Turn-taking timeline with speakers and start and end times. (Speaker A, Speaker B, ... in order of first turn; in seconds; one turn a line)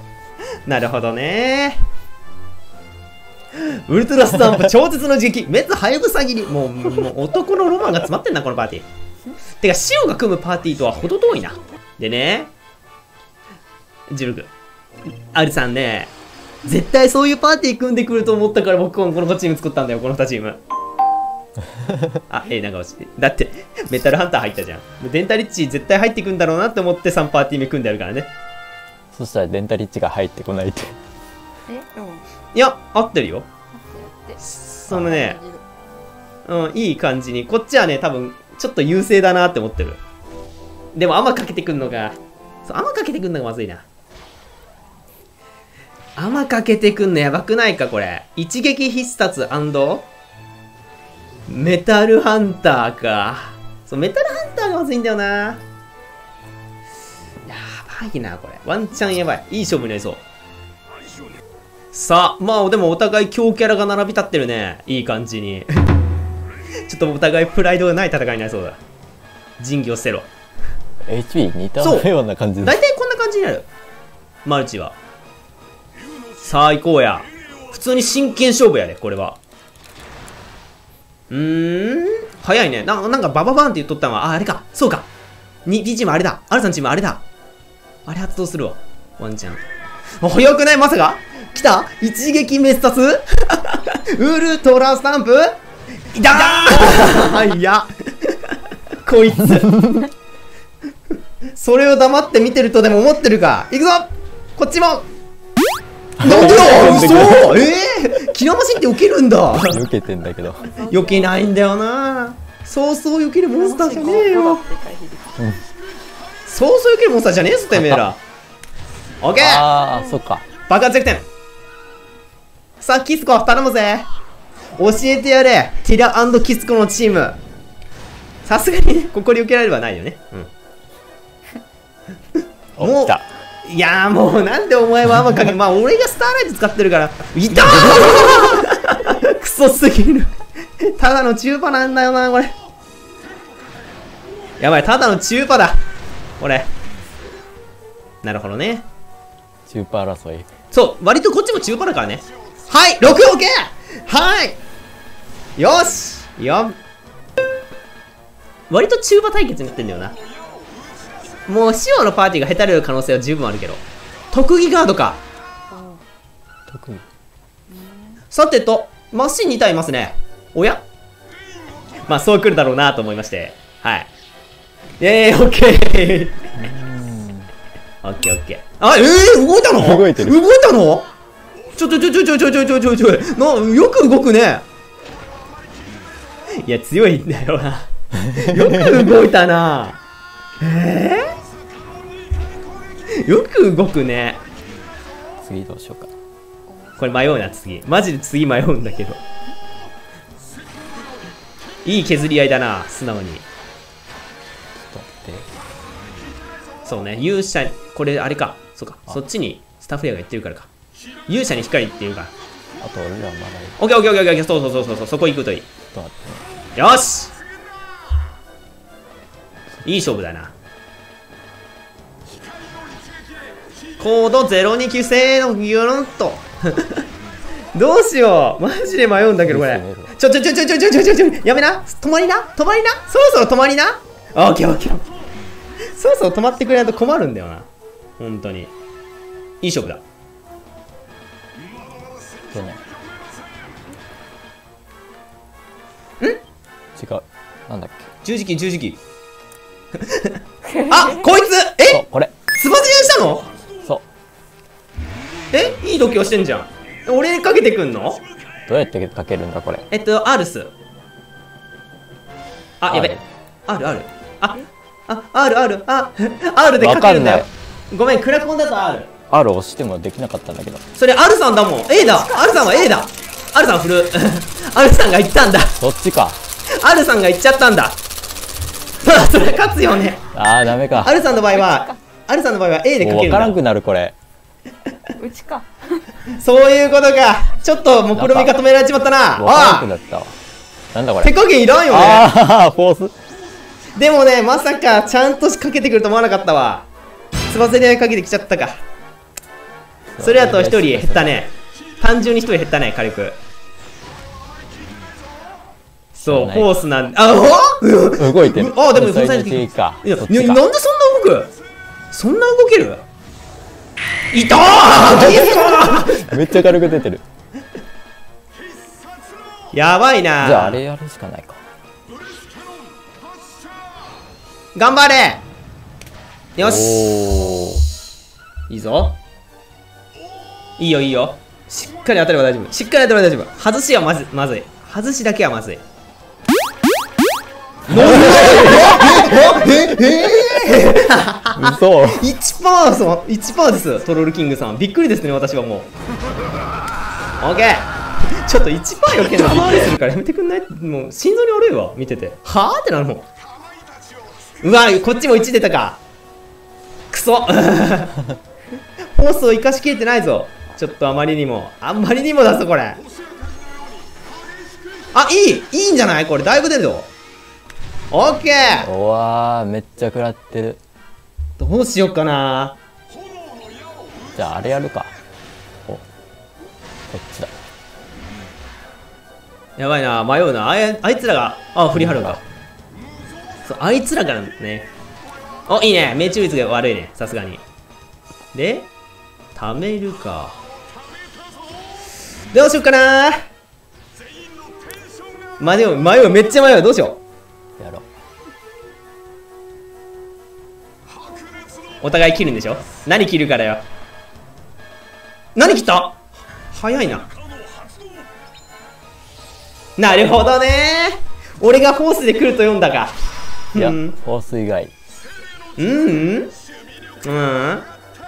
Speaker A: 0.7-1.8
Speaker A: 3.5-8.8
Speaker A: 9.6-12.5
Speaker A: 14.1-14.5
Speaker A: 15.3-16.1
Speaker A: 16.6-20.6
Speaker A: 22.3-28.3
Speaker B: 29.1-31.0
Speaker C: 31.7-32.2
Speaker A: 32.5-33.5
Speaker C: 33.7-35.6
Speaker A: 34.4-35.4
Speaker A: 36.4-40.0
Speaker A: 40.9-43.8
Speaker A: 46.1-50.1
Speaker A: 51.5-55.6
Speaker A: 57.5-60.2
Speaker A: 61.9-65.8
Speaker A: 66.9-68.8
Speaker A: 69.6-70.3
Speaker B: 71.1-72.8
Speaker A: 71.8-72.1
Speaker A: 72.6-73.7
Speaker A: 74.4-75.0
Speaker A: 76.4-79.4
Speaker A: 81.3-85.1
Speaker A: 85.7-87.2
Speaker A: 88.0-89.6
Speaker A: 90.2-95.6
Speaker A: 96.1-100.0
Speaker A: 101.5-105.0
Speaker B: 106.2-107.7
Speaker A: 106.2-109.8
Speaker B: 109.6-110.7
Speaker C: 110.6-111.4
Speaker A: 110.9-114.6
Speaker C: 113.5-115.5
Speaker A: 116.5-118.2
Speaker B: 117.7-118.0
Speaker A: 119.2-119.7
Speaker B: 119.4-120.4
Speaker C: 119.9-120.2
Speaker A: 120.7-121.2
Speaker A: 122.8-124.1
Speaker A: 124.8-127.4
Speaker A: 128.4-130.5
Speaker B: 132.8-133.2
Speaker A: 132.8-142.5
Speaker B: 137.7-138.3
Speaker A: 144.6-145.8
Speaker A: 146.4-146.7
Speaker A: 148.2-148.8
Speaker B: 149.7-150.5
Speaker A: 150.7-154.6
Speaker A: 155.6-156.8
Speaker A: 158.7-160.2
Speaker A: 161.4-165.2
Speaker C: 165.7-166.0
Speaker B: 166.7-167.0
Speaker C: 167.7-168.2
Speaker A: 168.3-170.8
Speaker A: 172.1-174.1
Speaker A: 175.0-176.4
Speaker B: 176.6-177.5
Speaker A: 178.0-181.1
Speaker B: 179.8-180.4
Speaker A: 181.7-184.6
Speaker A: 186.6-190.0
Speaker B: 188.4-189.0
Speaker A: 190.6-191.3
Speaker A: 193.1-194.4
Speaker B: 195.4-196.1
Speaker C: 196.7-197.4
Speaker A: 197.0-199.2
Speaker A: 201.8-203.4
Speaker B: 204.7-205.5
Speaker A: 206.8-210.7
Speaker A: 211.3-212.3
Speaker B: 212.8-213.8
Speaker A: 213.8-215.7
Speaker B: 215.9-216.4
Speaker A: 216.8-217.3
Speaker A: 219.8-220.5
Speaker A: 224.0-227.1
Speaker A: 227.7-235.0
Speaker B: 229.5-230.1
Speaker A: 235.9-238.7
Speaker A: 239.6-240.0
Speaker B: 242.5-242.8
Speaker B: 246.9-248.1
Speaker A: 248.2-249.0
Speaker A: 250.0-250.4
Speaker C: 250.6-251.2
Speaker A: 250.9-253.5
Speaker B: 251.9-252.3
Speaker A: 255.5-258.2
Speaker B: 258.7-259.9
Speaker A: 259.9-260.7
Speaker A: 262.8-269.1
Speaker B: 262.9-263.2
Speaker B: 266.8-267.5
Speaker B: 269.3-270.8
Speaker A: 270.9-275.8
Speaker C: 272.0-273.1
Speaker B: 275.8-276.4
Speaker A: 276.7-278.0
Speaker A: 279.0-280.2
Speaker B: 280.3-281.2
Speaker A: 281.0-283.6
Speaker C: 281.5-282.0
Speaker B: 283.0-284.1
Speaker C: 285.2-286.0
Speaker A: 286.4-289.9
Speaker B: 288.1-288.5
Speaker B: 289.4-290.4
Speaker B: 290.9-291.3
Speaker A: 291.2-292.3
Speaker B: 291.9-293.1
Speaker A: 293.9-296.9
Speaker A: 297.5-298.8
Speaker B: 300.1-301.3
Speaker A: 300.2-303.4
Speaker B: 306.1-306.7
Speaker A: 306.2-311.5
Speaker B: 308.1-310.6
Speaker A: 312.1-313.0
Speaker A: 314.3-316.3
Speaker B: 315.0-317.2
Speaker A: 319.7-320.8
Speaker B: 320.4-321.6
Speaker A: 324.7-325.4
Speaker A: 326.6-327.1
Speaker B: 326.6-327.8
Speaker A: 328.7-329.2
Speaker A: 330.8-335.8
Speaker A: 337.9-345.9
Speaker B: 337.9-340.8
Speaker B: 341.6-342.2
Speaker A: 347.4-353.3
Speaker A: 354.6-356.0
Speaker A: 357.1-358.2
Speaker A: 359.1-363.0
Speaker A: 365.1-367.1
Speaker A: 368.1-368.9
Speaker B: 368.8-370.8
Speaker A: 371.6-372.8
Speaker B: 374.3-375.1
Speaker B: 377.1-377.5
Speaker A: 379.8-382.4
Speaker B: 381.9-382.4
Speaker A: 383.6-384.9
Speaker A: 385.7-387.6
Speaker A: 388.5-388.9
Speaker A: 389.5-390.6
Speaker A: 392.5-393.5
Speaker A: 395.6-397.2
Speaker B: 397.8-398.1
Speaker A: 402.0-403.8
Speaker A: 405.6-406.2
Speaker A: 406.7-407.3
Speaker A: 410.0-413.1
Speaker A: 413.7-414.2
Speaker B: 413.7-414.9
Speaker A: 415.8-416.5
Speaker A: 417.2-417.9